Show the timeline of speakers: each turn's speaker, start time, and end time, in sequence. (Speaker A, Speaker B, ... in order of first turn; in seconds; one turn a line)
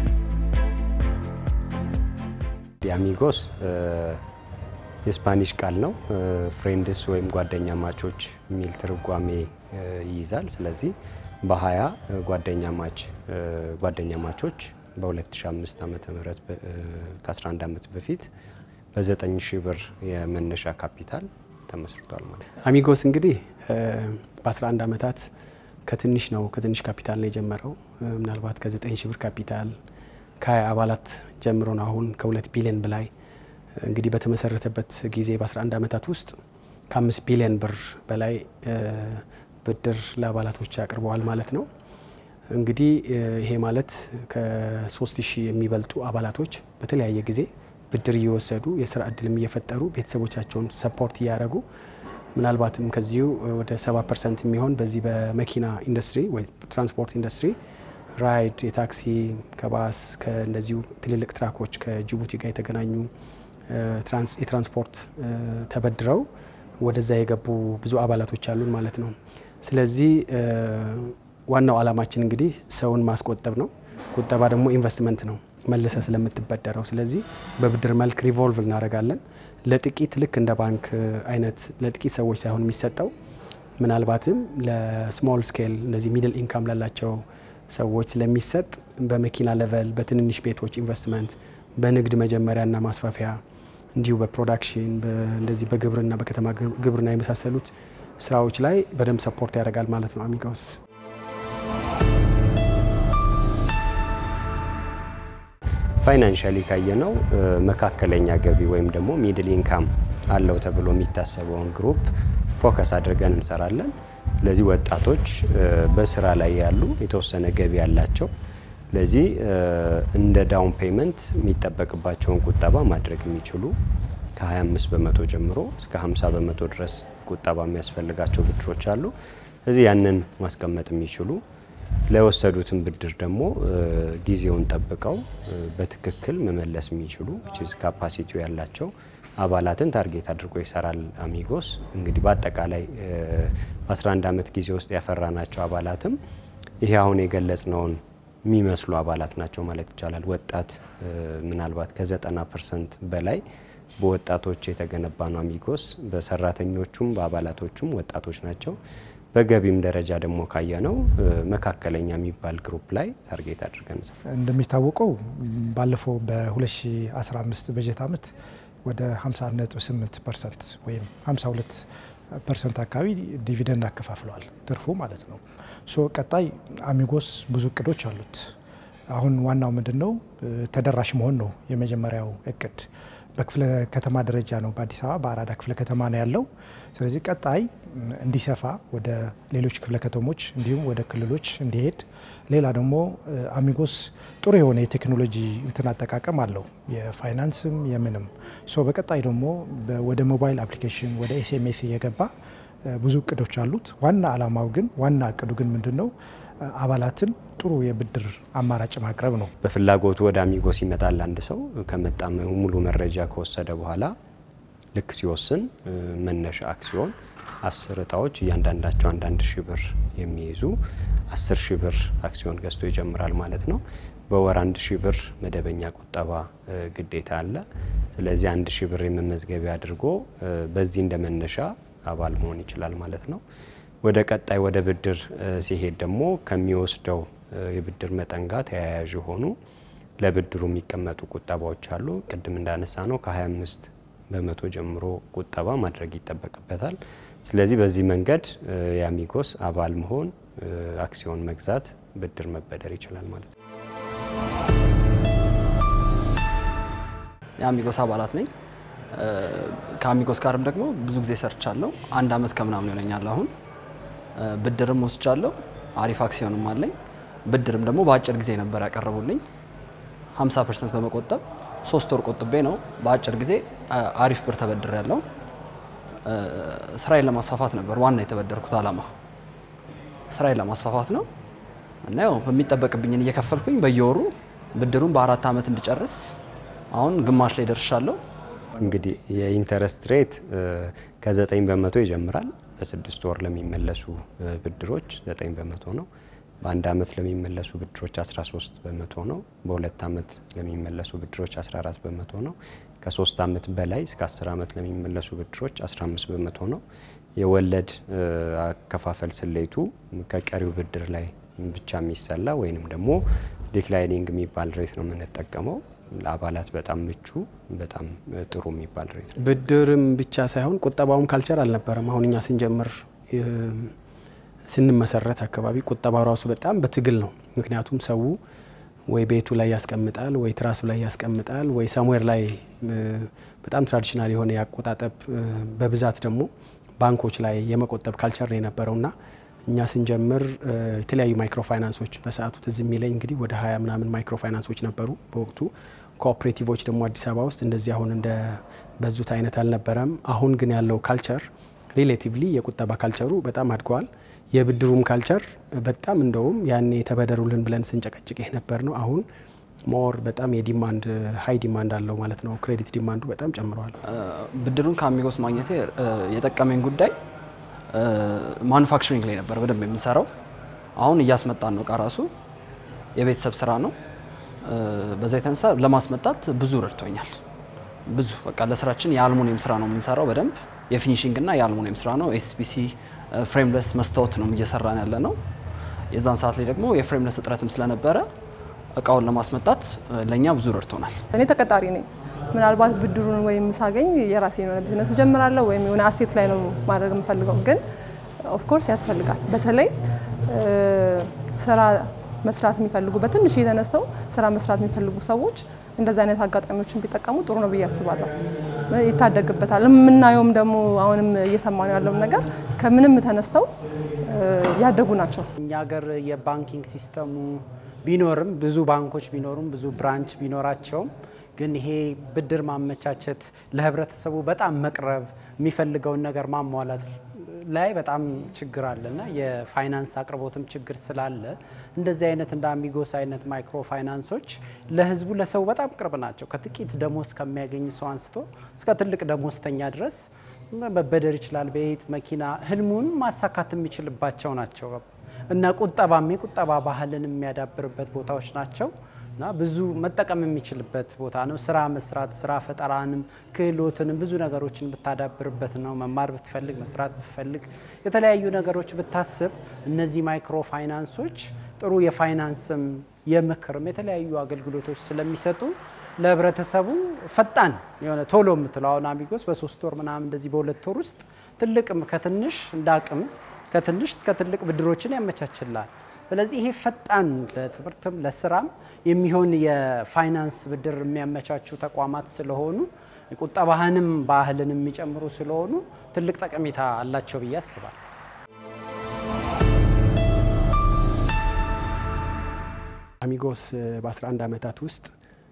Speaker A: 2.8-4.2
Speaker A: 5.0-18.3
Speaker A: 18.9-22.4
Speaker B: 22.6-25.3
Speaker B: 25.9-29.7
Speaker B: 30.4-33.1
Speaker B: 33.8-36.4
Speaker B: 36.9-41.7
Speaker B: 42.5-51.6
Speaker B: 52.3-57.6
Speaker B: 58.2-63.1
Speaker B: 63.7-66.3
Speaker B: 66.8-83.1
Speaker B: 83.8-93.4
Speaker B: 93.9-100.8
Speaker A: 106.0-118.3
Speaker A: 118.9-123.8
Speaker A: 124.3-129.1
Speaker A: 129.7-131.4
Speaker A: 132.1-146.2
Speaker A: 146.8-153.4
Speaker A: 154.0-158.8
Speaker A: 159.3-164.1
Speaker C: 164.3-168.3
Speaker C: 168.8-171.8
Speaker C: 172.4-178.5
Speaker C: 179.1-202.3
Speaker C: 202.9-206.1
Speaker C: 206.6-209.5
Speaker A: 209.6-214.1
Speaker A: 214.9-220.8
Speaker A: 221.3-233.4
Speaker A: 234.0-239.6
Speaker A: 240.2-253.5
Speaker D: 257.6-258.5
Speaker D: 259.1-263.5
Speaker D: 264.4-266.9
Speaker D: 267.5-269.4
Speaker D: 270.3-275.2
Speaker D: 276.2-279.1
Speaker D: 280.3-281.3
Speaker D: 282.0-286.4
Speaker D: 286.9-288.2
Speaker A: 288.8-296.1
Speaker A: 296.6-306.8
Speaker A: 307.4-313.2
Speaker A: 313.7-319.5
Speaker B: 319.4-323.9
Speaker B: 324.7-328.4
Speaker B: 329.1-339.1
Speaker B: 339.6-359.2
Speaker B: 359.9-363.9
Speaker D: 364.1-367.1
Speaker D: 367.9-370.3
Speaker D: 371.0-372.3
Speaker D: 373.1-373.9
Speaker D: 374.6-377.4
Speaker D: 378.1-385.4
Speaker D: 386.1-388.2
Speaker D: 388.9-391.2
Speaker E: 391.4-392.0
Speaker F: 391.4-391.9
Speaker F: 392.6-397.8
Speaker E: 392.6-397.7
Speaker E: 398.5-399.7
Speaker F: 398.6-399.9
Speaker E: 400.5-401.1
Speaker F: 401.6-408.2
Speaker E: 403.9-404.3
Speaker E: 405.0-405.6
Speaker E: 407.2-408.2
Speaker F: 408.9-413.6
Speaker E: 409.6-410.7
Speaker E: 411.4-413.4
Speaker F: 414.4-487.9
Speaker B: 493.2-495.1